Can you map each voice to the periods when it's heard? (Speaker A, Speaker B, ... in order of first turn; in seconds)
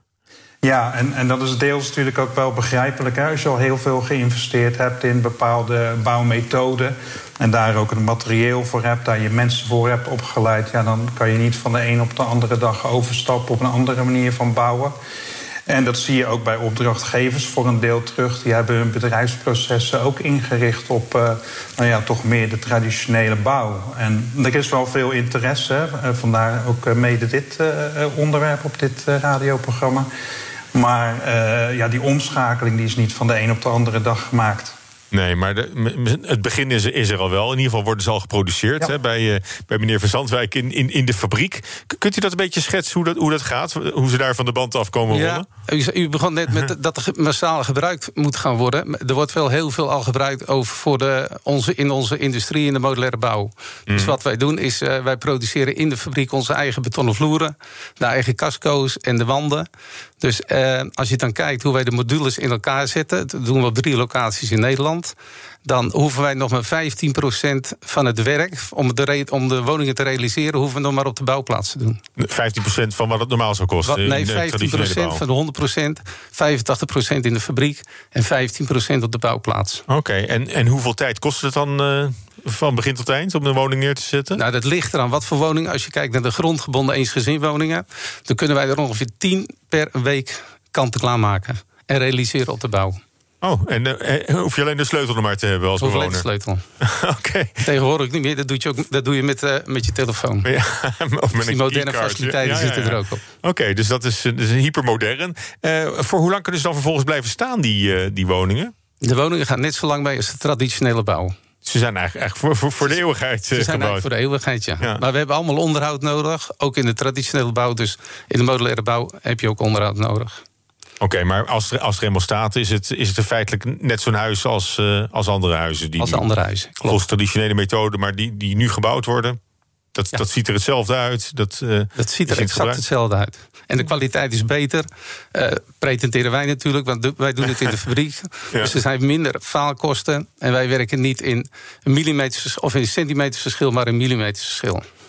Speaker A: 0.6-14.9, 15.7-30.1, 30.7-34.7
Speaker B: 35.1-45.4, 53.9-54.1, 72.2-75.2, 79.9-84.4, 93.4-96.2, 96.8-97.6, 100.4-108.7, 111.6-114.1, 121.0-126.2, 126.9-129.4, 129.9-132.8
Speaker C: 45.1-59.7, 60.2-65.1, 65.6-72.0, 73.8-79.8, 84.3-93.0, 95.8-96.6, 97.6-100.5, 101.4-103.2, 109.0-111.3, 113.5-120.4, 126.0-127.0, 132.0-144.8